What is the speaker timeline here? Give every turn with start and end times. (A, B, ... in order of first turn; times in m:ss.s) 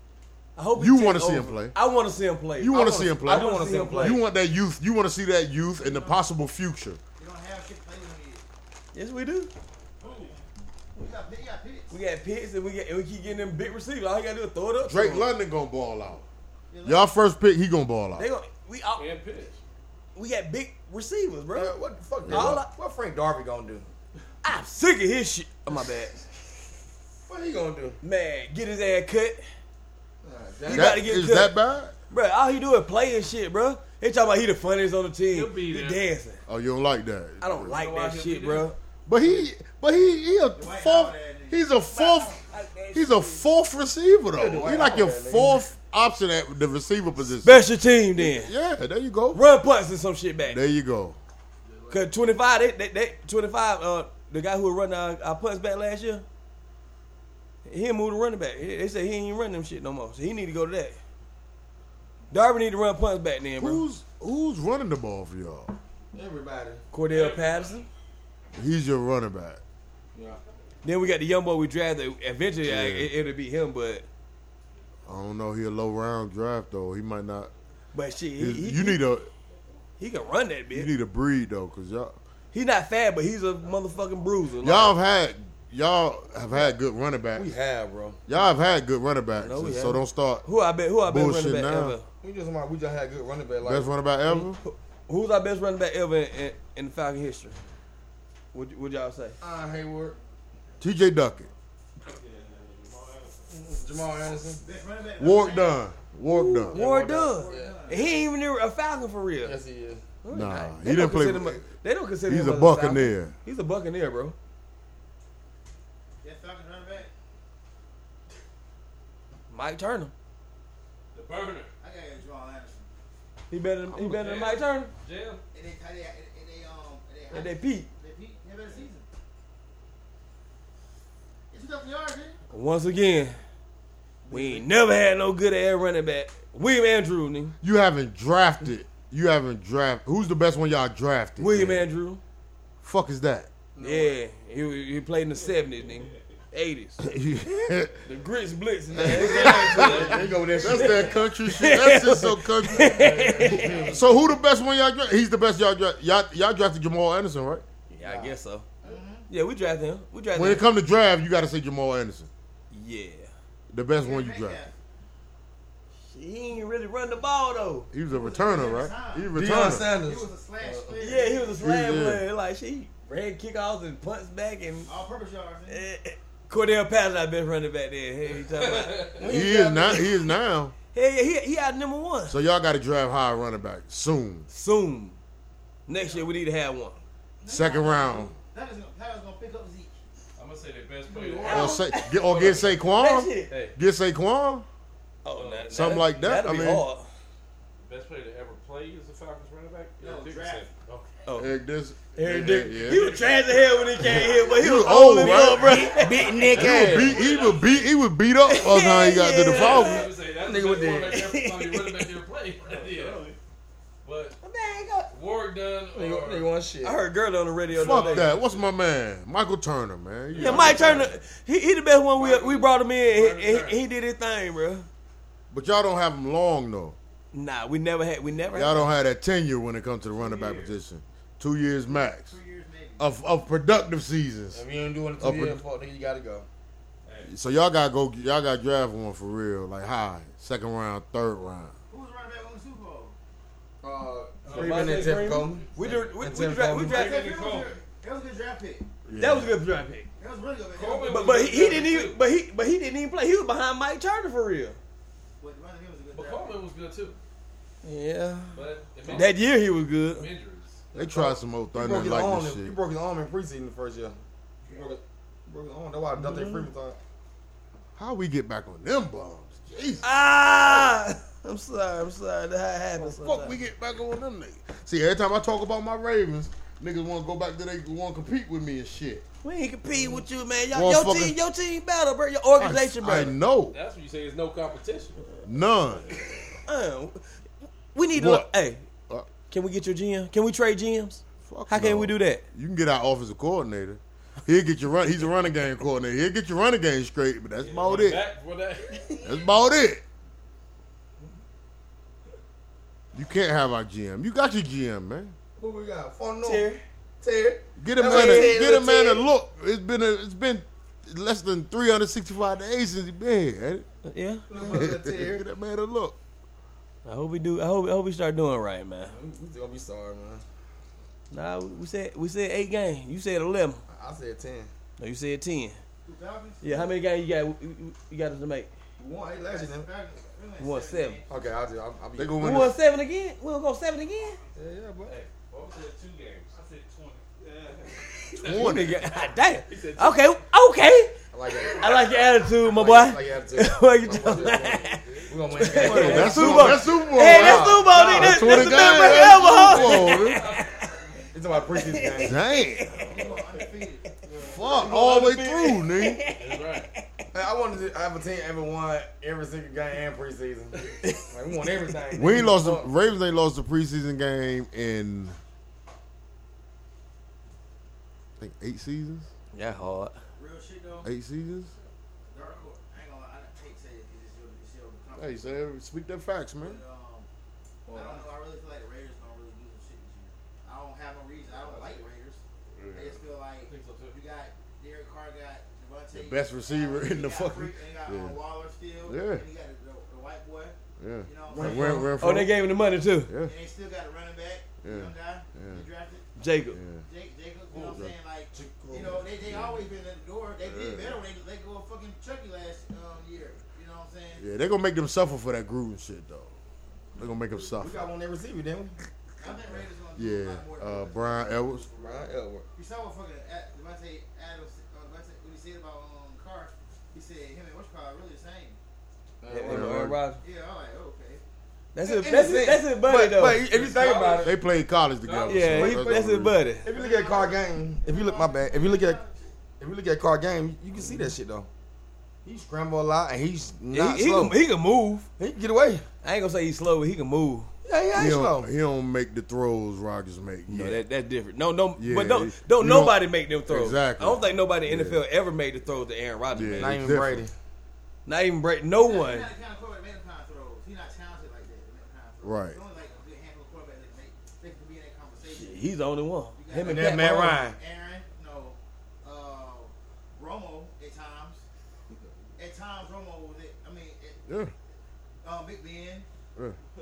0:00.6-0:04.2 A
0:00.8-0:01.7 B
0:02.6-0:07.0 B
0:02.7-0:04.2 C
0:05.8-0:06.2 D
0:07.2-0:08.4 D
0:08.9-0:09.5 A
0:10.0-0:10.4 D
0:10.0-0:10.4 E
0:10.9-0:12.0 D
0:11.9-0:15.3 A
0:14.8-0:16.2 B
0:16.7-0:17.1 D
0:16.8-0:18.3 B
0:18.2-0:19.1 A
0:19.0-0:19.6 E
0:20.1-0:21.8 A
0:21.5-0:23.8 C
0:22.2-0:22.6 B
0:22.3-0:22.7 A
0:24.4-0:26.2 A
0:27.2-0:28.0 C
0:28.0-0:29.4 A
0:30.2-0:31.0 C
0:30.7-0:31.5 A
0:30.7-0:31.9 B
0:32.1-0:36.4 A
0:35.3-0:36.0 E
0:36.5-0:37.8 B
0:37.4-0:38.8 A
0:37.7-0:38.7 E
0:39.0-0:42.4 B
0:40.5-0:42.4 D
0:42.4-0:43.4 A
0:42.9-0:49.4 B
0:44.3-0:45.6 C
0:47.4-0:48.5 A
0:49.3-0:50.6 A
0:50.5-0:51.2 B
0:51.9-0:56.2 A
0:57.6-1:01.0 A
1:02.3-1:03.8 A
1:03.6-1:05.7 B
1:06.1-1:06.8 C
1:06.9-1:07.9 A
1:07.1-1:07.7 E
1:08.6-1:09.6 B
1:10.1-1:10.4 C
1:10.8-1:14.1 A
1:12.6-1:13.1 B
1:15.0-1:17.5 B
1:17.9-1:19.0 A
1:18.4-1:19.3 B
1:20.0-1:20.9 A
1:20.7-1:22.2 B
1:22.5-1:25.0 A
1:24.6-1:27.5 B
1:27.3-1:28.2 C
1:28.3-1:30.4 B
1:29.4-1:32.0 A
1:31.0-1:32.0 B
1:32.2-1:33.9 C
1:33.6-1:34.6 B
1:34.3-1:37.6 A
1:38.5-1:39.4 A
1:39.4-1:40.2 C
1:40.8-1:41.5 B
1:42.2-1:43.4 E
1:43.5-1:44.6 C
1:44.6-1:45.8 D
1:45.2-1:46.8 B
1:46.2-1:49.6 A
1:46.7-1:48.0 C
1:47.1-1:48.2 D
1:49.4-1:50.0 C
1:50.2-1:54.3 A
1:50.3-1:51.7 B
1:52.2-1:53.3 B
1:56.2-1:57.1 D
1:59.5-2:00.1 A
2:01.1-2:01.7 E
2:01.8-2:02.9 D
2:03.5-2:04.9 A
2:03.9-2:05.4 E
2:05.5-2:09.0 D
2:07.3-2:07.9 A
2:11.5-2:12.4 D
2:12.5-2:13.4 A
2:14.2-2:14.6 C
2:14.3-2:17.6 A
2:17.6-2:21.8 B
2:21.4-2:22.2 A
2:22.8-2:23.5 B
2:23.8-2:24.2 C
2:23.8-2:27.0 A
2:27.0-2:28.0 B
2:28.0-2:33.8 A
2:28.9-2:33.2 B
2:28.9-2:31.2 C
2:29.7-2:30.2 E
2:32.9-2:34.1 C
2:33.0-2:33.9 E
2:33.7-2:37.6 B
2:37.9-2:38.7 A
2:38.0-2:38.3 C
2:38.8-2:39.3 D
2:39.3-2:40.6 A
2:40.3-2:42.3 B
2:42.7-2:43.3 A
2:43.7-2:44.6 B
2:43.9-2:44.7 D
2:46.0-2:47.9 A
2:47.9-2:49.9 B
2:48.1-2:51.6 D
2:49.3-2:50.3 C
2:50.6-2:51.0 E
2:51.0-2:54.9 A
2:51.6-2:52.2 B
2:54.8-2:55.8 D
2:55.7-2:59.2 A
2:58.4-2:59.2 E
2:59.2-3:00.2 C
2:59.2-3:00.7 B
3:00.9-3:02.4 A
3:02.3-3:04.5 B
3:04.5-3:05.2 A
3:05.9-3:07.0 A
3:07.4-3:10.0 D
3:07.5-3:08.3 B
3:10.4-3:12.8 E
3:11.1-3:11.8 D
3:11.4-3:12.3 A
3:11.4-3:14.6 B
3:12.8-3:13.5 A
3:13.5-3:13.8 E
3:15.2-3:17.1 A
3:15.3-3:16.0 E
3:15.7-3:16.8 B
3:17.8-3:21.1 E
3:20.0-3:20.7 D
3:21.2-3:21.6 A
3:21.3-3:23.1 B
3:22.2-3:26.7 A
3:22.2-3:24.2 E
3:24.5-3:25.8 B
3:25.6-3:27.2 C
3:26.5-3:30.1 B
3:26.8-3:27.9 E
3:26.9-3:27.7 D
3:28.4-3:30.0 A
3:29.4-3:33.4 E
3:30.3-3:31.2 C
3:31.0-3:32.1 A
3:34.0-3:34.4 E
3:34.4-3:35.1 A
3:35.1-3:36.5 E
3:35.9-3:37.0 C
3:36.8-3:38.3 A
3:37.7-3:38.7 E
3:37.8-3:41.1 B
3:40.3-3:41.1 E
3:40.4-3:44.9 A
3:42.2-3:43.8 E
3:45.5-3:47.0 B
3:47.3-3:48.9 A
3:48.5-3:52.3 B
3:50.2-3:50.7 E
3:52.0-3:53.1 D
3:53.0-3:54.6 B
3:54.5-3:56.5 C
3:55.2-3:55.6 B
3:57.0-3:57.3 E
3:57.2-4:01.7 B
4:01.9-4:03.1 D
4:03.8-4:07.0 C
4:04.4-4:07.8 E
4:04.5-4:07.2 A
4:06.9-4:08.9 D
4:09.0-4:09.6 B
4:09.2-4:10.1 A
4:10.2-4:11.3 D
4:10.7-4:12.2 E
4:11.0-4:14.8 A
4:15.4-4:16.6 D
4:16.1-4:17.2 E
4:17.8-4:20.2 A
4:18.5-4:20.8 E
4:20.9-4:24.2 C
4:20.9-4:22.8 B
4:24.7-4:27.0 C
4:26.2-4:26.7 A
4:28.0-4:30.0 B
4:30.0-4:33.6 A
4:33.0-4:39.2 B
4:39.4-4:43.4 A
4:40.7-4:41.4 B
4:42.6-4:43.8 B
4:43.7-4:45.2 E
4:45.4-4:46.1 B
4:46.6-4:47.2 A
4:47.9-4:48.8 A
4:48.1-4:48.5 B
4:49.5-4:52.4 A
4:51.4-4:58.2 B
4:57.6-4:59.3 E
4:59.2-5:00.0 B
5:03.1-5:05.4 B
5:05.6-5:09.2 C
5:06.4-5:06.8 A
5:07.8-5:13.8 B
5:08.0-5:08.6 A
5:14.0-5:14.8 A
5:14.5-5:15.4 C
5:14.7-5:16.2 B
5:17.0-5:19.1 A
5:19.0-5:20.4 C
5:21.3-5:23.8 A
5:23.9-5:24.7 C
5:25.0-5:25.8 A
5:26.0-5:26.9 D
5:26.6-5:28.7 A
5:29.0-5:29.9 C
5:29.3-5:31.4 D
5:30.6-5:31.2 A
5:31.3-5:32.5 C
5:32.2-5:32.7 B
5:32.4-5:34.4 A
5:34.6-5:35.2 C
5:35.0-5:36.6 E
5:36.6-5:37.2 D
5:37.6-5:40.2 E
5:38.4-5:39.0 B
5:38.5-5:51.0 A
5:41.3-5:42.0 C
5:41.6-5:42.5 E
5:42.6-5:49.3 C
5:44.0-5:46.3 E
5:45.8-5:50.5 B
5:49.1-5:51.2 E
5:51.3-5:52.4 C
5:51.7-5:57.2 A
5:52.2-5:53.0 B
5:52.9-5:54.1 D
5:52.9-5:53.4 E
5:54.2-5:54.5 E
5:54.4-5:56.2 B
5:56.3-5:56.9 E
5:57.3-6:02.9 C
6:02.1-6:05.4 B
6:08.4-6:09.3 B
6:09.5-6:10.2 A
6:10.4-6:11.1 D
6:11.0-6:11.7 B
6:12.2-6:15.6 D
6:12.4-6:12.6 E
6:15.2-6:16.8 B
6:16.6-6:17.3 D
6:17.9-6:18.3 E
6:17.9-6:22.4 D
6:21.4-6:22.0 E
6:22.8-6:23.2 B
6:22.9-6:32.0 D
6:23.6-6:24.2 E
6:26.1-6:28.4 B
6:29.0-6:29.4 B
6:31.0-6:32.5 B
6:31.5-6:32.1 C
6:32.2-6:33.3 A
6:33.3-6:33.5 B
6:33.4-6:36.2 D
6:34.8-6:35.8 B
6:36.4-6:36.8 A
6:36.7-6:37.0 B
6:37.0-6:44.4 D
6:37.7-6:38.1 B
6:38.5-6:39.3 C
6:39.5-6:39.8 B
6:40.6-6:41.2 B
6:44.4-6:46.5 B
6:47.2-6:48.1 B
6:47.6-6:49.5 C
6:49.4-6:58.8 D
6:50.2-6:51.9 B
6:51.9-6:52.6 C
6:59.4-7:00.1 C
6:59.5-7:00.4 A
6:59.6-7:00.2 B
7:00.4-7:01.4 D
7:01.9-7:03.6 A
7:02.0-7:04.6 C
7:03.6-7:04.6 E
7:04.4-7:06.6 B
7:05.2-7:05.6 E
7:05.5-7:06.9 A
7:05.5-7:06.3 C
7:06.8-7:09.2 C
7:06.9-7:09.4 D
7:09.8-7:11.7 C
7:12.4-7:14.6 C
7:13.9-7:15.3 A
7:15.4-7:16.0 C
7:16.2-7:17.7 A
7:17.8-7:18.7 C
7:18.1-7:21.0 B
7:20.7-7:27.0 A
7:22.0-7:25.2 B
7:26.5-7:27.4 B
7:26.8-7:27.5 C
7:28.2-7:29.5 A
7:29.0-7:35.8 D
7:32.4-7:32.8 B
7:35.4-7:37.6 A
7:36.5-7:41.6 D
7:36.8-7:37.8 C
7:42.6-7:44.4 D
7:44.5-7:44.7 B
7:45.4-7:46.2 D